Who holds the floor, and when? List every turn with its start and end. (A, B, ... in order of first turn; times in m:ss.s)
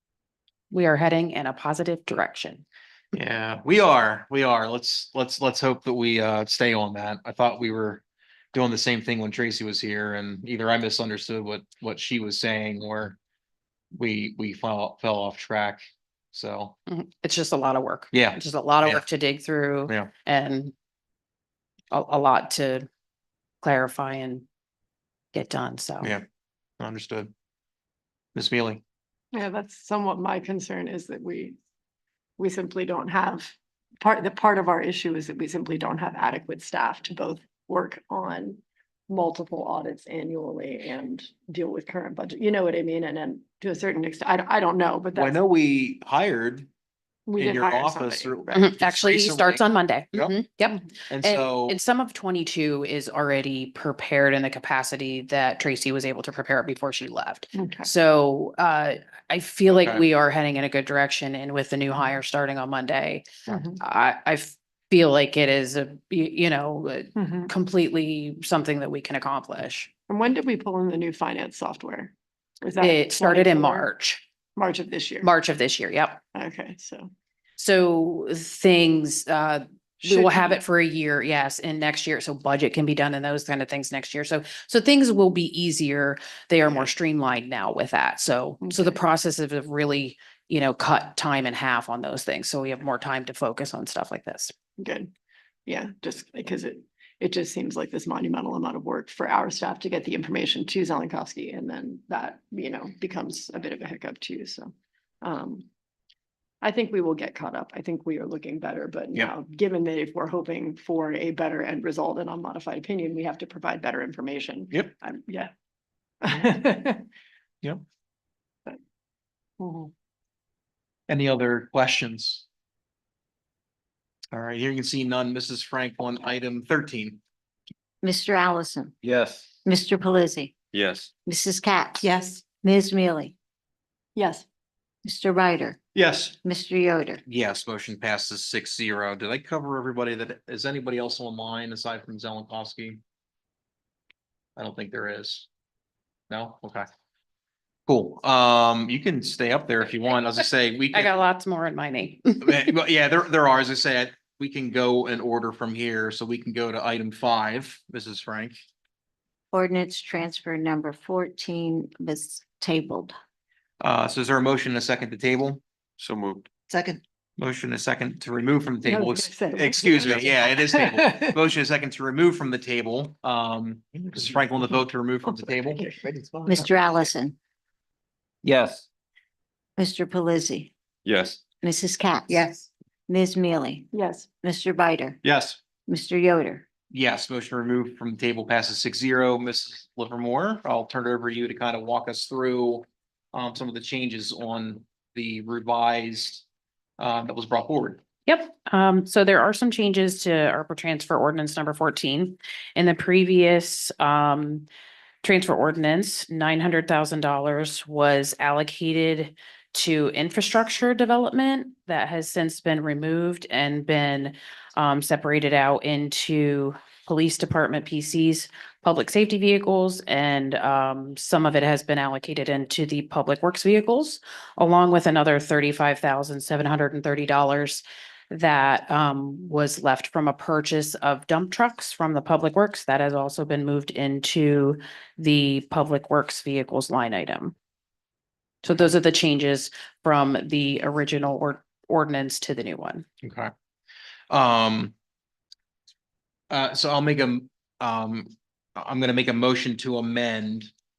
0:00.7-0:02.6 A
0:03.1-0:13.2 B
0:13.9-0:16.8 B
0:16.9-0:20.7 A
0:18.1-0:19.0 B
0:21.9-0:22.9 A
0:23.6-0:24.4 A
0:25.3-0:26.1 A
0:26.8-0:27.3 B
0:28.3-0:28.8 B
0:29.3-0:31.6 C
0:32.4-0:45.4 C
0:45.1-0:46.7 B
0:47.3-0:48.6 C
0:47.4-0:50.4 B
0:48.5-1:09.9 A
0:51.1-0:51.8 B
0:57.5-0:57.9 C
0:59.7-1:00.0 B
1:03.5-1:03.8 C
1:07.2-1:07.5 C
1:10.1-1:13.9 C
1:12.8-1:14.2 A
1:14.6-1:15.3 C
1:15.2-1:16.2 A
1:16.3-1:17.1 C
1:17.6-1:34.5 A
1:20.0-1:20.6 C
1:26.6-1:26.9 C
1:28.6-1:29.0 C
1:34.8-1:35.1 C
1:35.7-1:45.7 C
1:46.6-1:55.5 C
1:56.2-1:57.0 C
1:59.6-1:59.9 C
2:01.1-2:02.4 B
2:04.3-2:07.2 B
2:08.0-2:08.9 D
2:09.0-2:09.5 E
2:09.6-2:10.5 D
2:10.7-2:11.1 E
2:11.2-2:13.3 D
2:14.2-2:14.4 C
2:15.0-2:15.8 D
2:15.9-2:16.3 B
2:16.4-2:17.2 D
2:17.2-2:23.0 B
2:24.6-2:25.5 B
2:26.3-2:26.8 B
2:27.9-2:31.1 B
2:30.9-2:32.7 A
2:32.4-2:38.6 B
2:39.5-2:43.1 D
2:43.8-2:45.6 B
2:46.0-2:46.5 E
2:47.4-2:55.9 B
2:48.8-2:51.4 C
2:55.8-2:56.0 C
2:56.5-2:57.4 D
2:58.4-2:58.9 E
2:59.8-3:00.7 D
3:01.0-3:01.4 E
3:01.6-3:02.4 D
3:03.1-3:03.9 D
3:03.9-3:04.3 C
3:04.4-3:05.2 D
3:05.2-3:05.6 B
3:05.9-3:06.6 D
3:06.9-3:16.4 B
3:17.0-3:18.0 B
3:18.3-3:24.7 A
3:25.2-3:57.5 A
3:58.6-4:03.0 A
4:03.2-4:03.5 B
4:04.3-4:04.9 B
4:06.5-4:10.7 B